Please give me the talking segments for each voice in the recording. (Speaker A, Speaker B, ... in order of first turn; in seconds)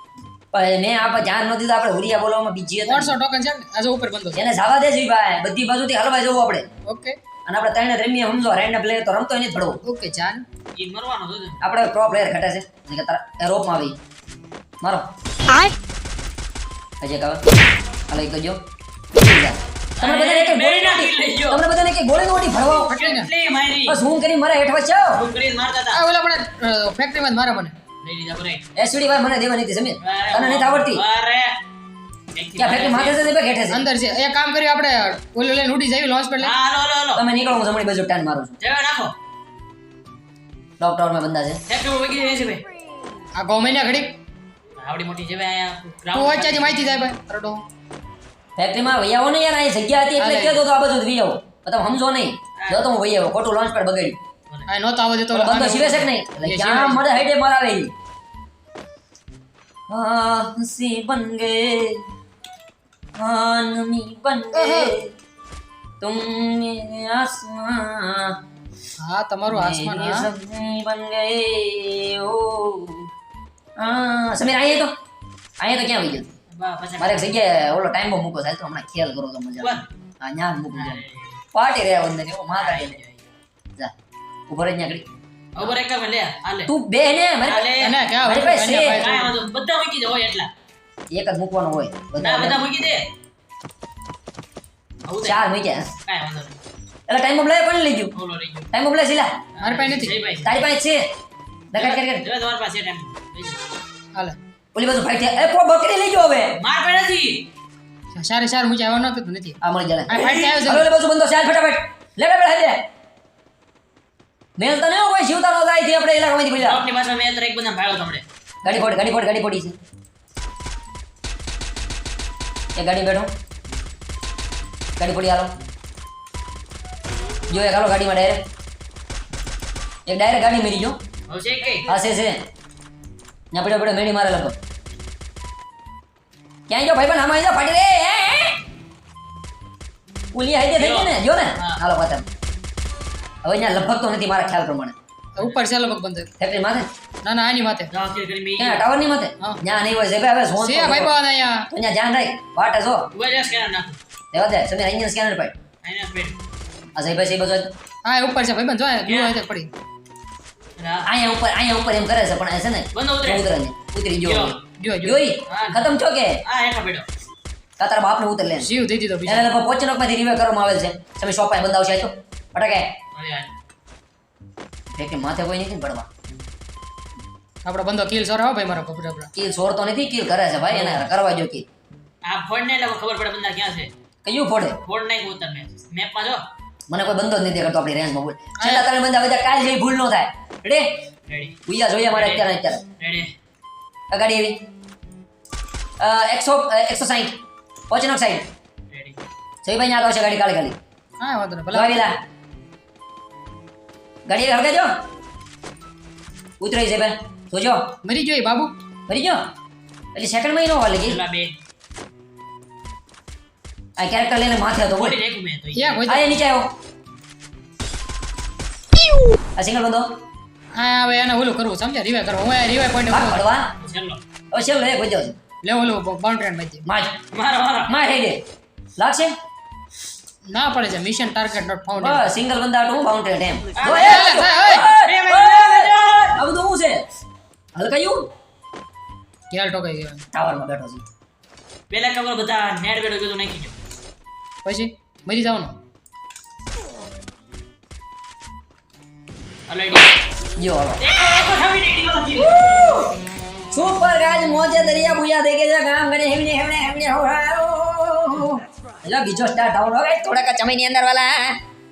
Speaker A: 0.5-3.2, 4.3-6.7, 7.5-9.8, 11.6-14.0, 14.8-15.1, 17.0-17.4, 18.1-18.6, 19.1-22.9, 23.9-25.2, 28.8-31.0, 32.6-33.9, 37.1-38.6, 40.8-41.6, 48.6-54.2, 55.3-57.9, 59.9-62.0, 63.2-65.1, 66.0-68.4, 69.5-73.1, 73.8-74.9, 75.6-76.3, 77.0-81.0, 81.5-83.0, 84.5-85.1, 86.7-87.7, 88.2-89.1, 91.1-92.6, 95.2-95.9, 97.1-98.1, 98.7-99.3, 100.4-101.1, 101.7-102.3, 104.8-106.5, 109.6-112.8, 114.6-116.8, 118.7-119.8, 122.8-123.3, 125.0-125.5, 127.5-128.4, 130.1-131.0, 131.9-132.4, 133.5-134.6, 136.7-138.6, 140.3-142.2, 143.4-144.9, 146.4-146.9, 148.6-151.1, 151.7-153.1, 154.3-155.5, 157.0-157.7, 161.1-166.4, 167.8-168.7, 169.3-172.9, 174.9-176.1, 179.3-181.7, 184.2-184.8, 186.9-190.9, 191.7-192.8, 194.1-194.6, 196.0-197.4, 197.9-198.5, 199.6-200.8, 201.7-202.2, 204.3-204.9, 206.6-207.8, 209.1-209.4, 210.2-211.2, 214.0-215.2, 216.1-216.7, 219.6-220.1, 223.1-223.7, 224.5-225.4, 226.8-227.2, 227.9-228.4, 229.0-229.3, 232.0-237.0, 237.8-238.3, 240.3-241.0, 250.6-251.0, 252.3-253.2, 253.7-261.6
Speaker B: 2.9-4.4, 6.9-7.2, 9.8-10.4, 22.9-23.3, 25.9-27.8, 33.7-36.5, 43.4-44.2, 46.1-47.6, 50.2-50.7, 54.7-57.1, 64.5-64.9, 69.0-70.3, 87.8-89.4, 99.6-100.2, 108.1-110.9, 145.4-146.3, 147.2-147.9, 150.6-151.7, 158.1-159.7, 164.8-165.2, 168.6-169.5, 177.7-179.3, 180.7-181.0, 188.6-188.9, 201.2-202.1, 208.0-208.8, 215.7-216.4, 220.8-223.4, 225.6-226.9, 230.5-232.3, 233.9-234.9, 239.5-240.2, 244.7-245.8
Speaker C: 10.8-11.6, 20.0-21.6, 22.9-24.0, 25.1-26.0, 28.0-28.7, 30.0-31.6, 32.3-33.2, 36.4-37.2, 38.6-39.1, 41.7-42.7, 44.8-46.8, 52.6-52.8, 76.5-77.4, 80.7-81.4, 82.5-83.2, 85.6-86.7, 87.4-88.0, 88.9-90.5, 92.2-93.1, 95.1-95.4, 96.0-96.6, 98.1-98.7, 99.6-100.7, 101.7-103.6, 106.6-107.5, 116.6-118.3, 131.3-131.9, 140.8-141.8, 147.9-148.8, 153.1-154.0, 155.8-156.4, 159.1-159.4, 160.8-161.1, 162.9-163.5, 164.2-164.6, 165.5-165.9, 166.4-167.1, 173.2-173.5, 182.2-183.9, 184.8-186.5, 191.3-191.6, 192.1-192.4, 193.0-193.3, 198.9-199.2, 211.1-211.6, 215.0-216.1, 223.8-224.2, 227.3-227.9, 233.8-236.4, 241.9-243.8, 249.7-250.1, 251.0-252.9